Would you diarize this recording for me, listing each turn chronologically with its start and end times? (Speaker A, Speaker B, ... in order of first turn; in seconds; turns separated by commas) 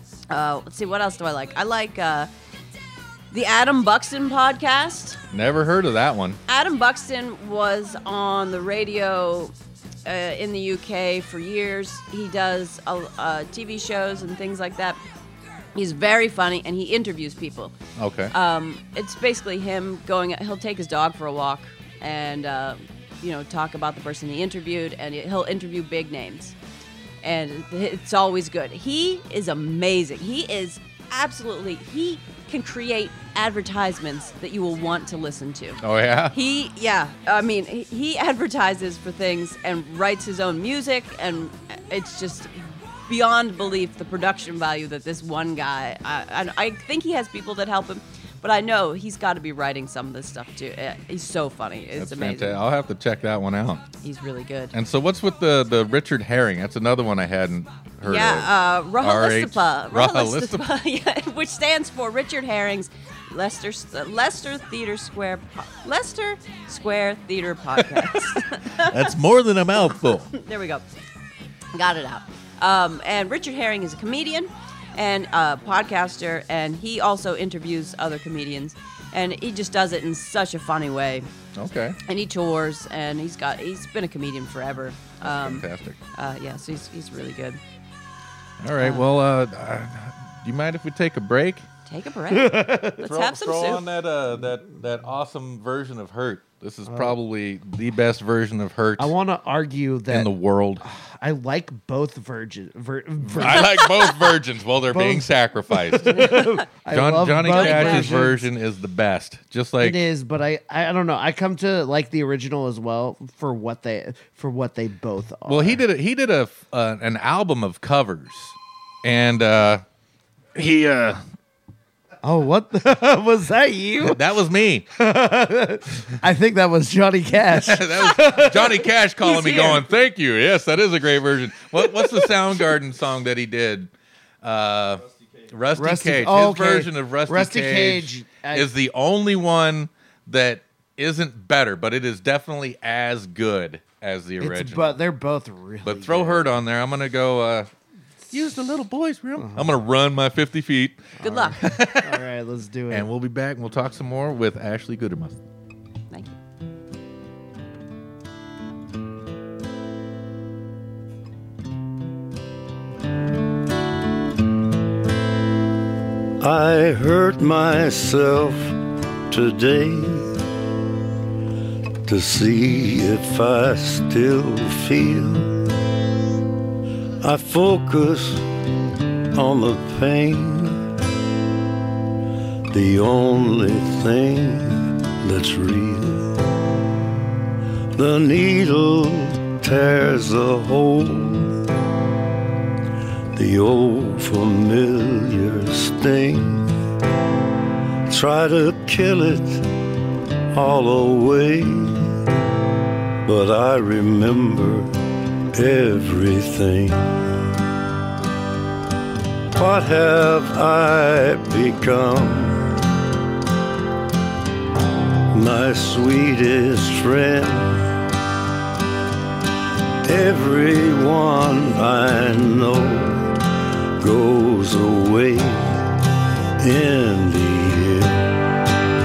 Speaker A: 0.3-2.3, Speaker A: 3.3-5.2, Speaker B: 5.3-6.4, Speaker A: 6.5-9.5, Speaker A: 10.0-15.0, Speaker A: 15.7-17.7, Speaker B: 18.0-18.3, Speaker A: 18.3-26.5, Speaker A: 27.2-52.6, Speaker B: 35.8-36.3, Speaker B: 52.0-53.9, Speaker A: 54.0-54.7, Speaker B: 54.7-60.6, Speaker A: 58.0-69.2, Speaker B: 67.8-70.3, Speaker A: 69.8-70.8, Speaker A: 71.7-81.3, Speaker B: 81.5-82.0, Speaker A: 82.0-87.6, Speaker B: 85.2-86.0, Speaker B: 88.6-91.7, Speaker A: 88.8-89.0, Speaker A: 91.9-93.8, Speaker C: 92.3-93.0, Speaker B: 93.0-99.1, Speaker C: 96.9-97.1, Speaker C: 99.0-100.3, Speaker B: 100.1-100.8, Speaker C: 100.8-103.9, Speaker B: 103.2-110.0, Speaker A: 103.5-104.2, Speaker C: 104.9-108.4, Speaker A: 106.0-106.6, Speaker A: 107.5-108.1, Speaker C: 109.8-115.8, Speaker B: 115.5-119.8, Speaker B: 120.5-121.2, Speaker C: 122.2-124.2, Speaker B: 124.0-124.9, Speaker C: 124.9-128.9, Speaker B: 127.5-145.0, Speaker A: 129.2-129.8, Speaker C: 135.8-138.7, Speaker C: 144.4-146.5, Speaker B: 145.8-147.7, Speaker B: 148.3-152.2, Speaker C: 149.4-149.7, Speaker C: 151.2-153.1, Speaker A: 151.2-151.6, Speaker B: 152.9-155.4, Speaker D: 166.4-168.8, Speaker D: 169.3-170.3, Speaker D: 172.1-175.6, Speaker D: 177.2-178.6, Speaker D: 179.3-180.9, Speaker D: 182.7-186.3, Speaker D: 187.9-191.6, Speaker D: 193.3-196.7, Speaker D: 198.1-199.7, Speaker D: 200.5-202.2, Speaker D: 203.2-204.9, Speaker D: 205.5-207.3, Speaker D: 209.5-212.7, Speaker D: 215.3-217.8, Speaker D: 220.0-223.3, Speaker D: 224.0-225.8, Speaker D: 226.6-228.3